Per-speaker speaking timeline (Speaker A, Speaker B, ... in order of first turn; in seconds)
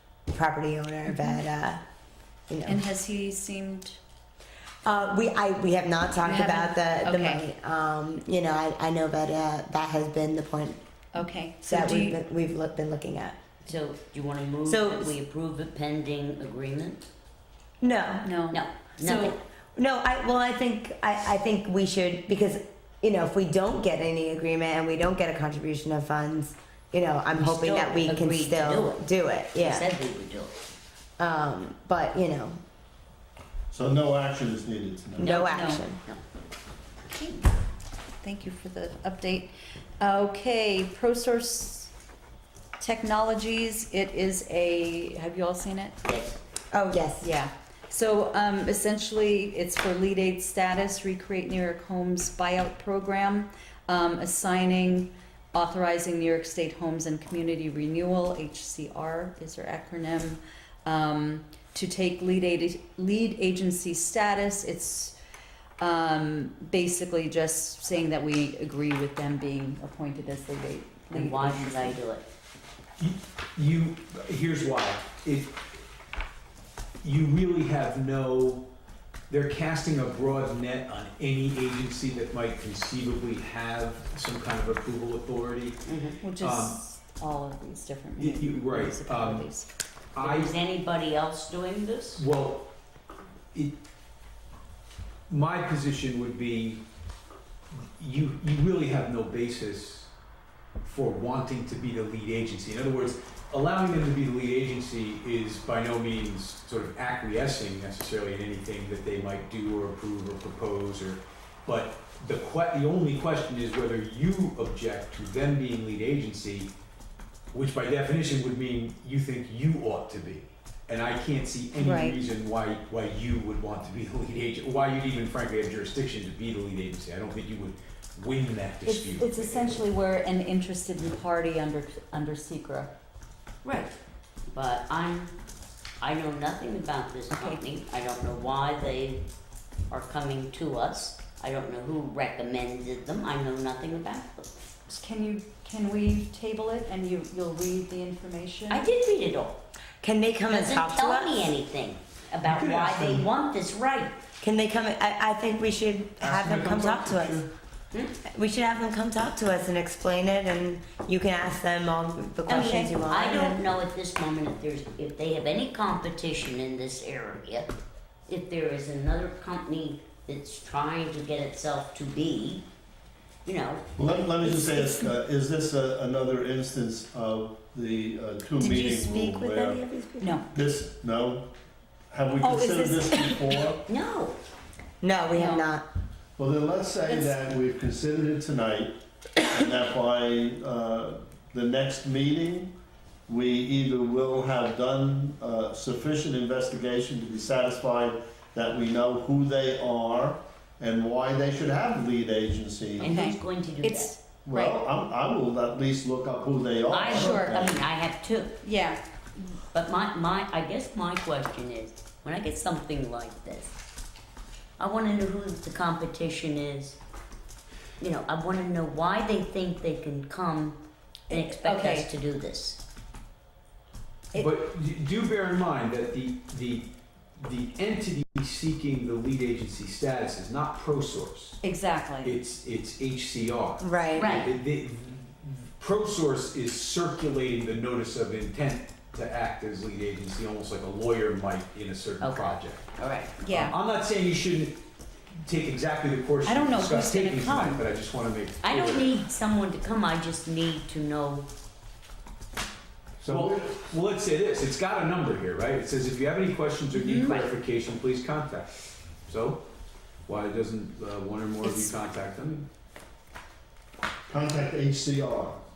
Speaker A: 0.3-1.8, 2.5-2.8, 4.8-10.8, 11.6-13.4, 14.6-15.1, 17.8-18.3, 19.8-29.9, 31.2-32.6, 35.2-36.0, 46.7-47.3, 150.0-151.5, 154.4-157.5, 158.3-163.6, 178.6-180.4, 185.0-185.8, 233.8-234.3
Speaker B: 1.1-1.4, 2.6-4.0, 6.2-7.4, 11.1-12.2, 18.2-19.3, 35.3-35.9, 37.1-37.5, 38.2-41.9, 42.8-46.0, 47.2-65.1, 65.8-72.0, 86.2-89.7, 121.8-122.2, 128.8-132.9, 137.3-137.6, 144.9-148.8, 162.5-162.9, 174.4-175.1, 180.2-180.5, 182.4-183.4, 185.3-185.8, 187.1-187.5, 203.0-204.8, 207.2-207.5, 208.6-209.0, 221.3-222.1, 231.6-232.4, 243.4-243.8, 246.4-247.8, 256.9-257.5, 261.6-261.9
Speaker C: 13.7-17.1, 18.5-19.4, 27.3-29.0, 29.6-30.6, 35.2-36.2, 46.0-46.4, 71.1-72.2, 85.8-86.2, 90.2-92.2, 133.6-134.0, 134.5-135.3, 136.0-139.2, 139.9-144.5, 148.7-149.6, 150.5-154.2, 162.5-167.7, 168.3-172.7, 173.4-174.1, 183.8-184.3, 203.0-204.1, 206.9-208.5, 209.7-213.7, 214.8-217.0, 218.0-222.8, 234.2-234.5, 242.2-243.7, 248.6-251.5
Speaker D: 33.7-35.4, 174.0-179.8, 180.5-181.5, 182.1-183.8, 186.4-192.7, 193.3-203.1, 204.4-207.8, 253.2-253.8, 264.3-265.6
Speaker E: 73.0-75.6, 77.0-78.7, 79.3-85.8, 86.4-86.8, 88.2-89.5, 90.1-90.5, 92.1-92.7, 93.5-93.8, 95.3-96.8, 98.0-100.1, 100.8-116.7, 117.5-129.8, 152.4-153.3, 156.2-157.5, 224.3-231.6, 232.2-242.9, 243.5-244.8, 245.3-249.1, 253.2-258.7, 259.2-259.6, 260.3-262.7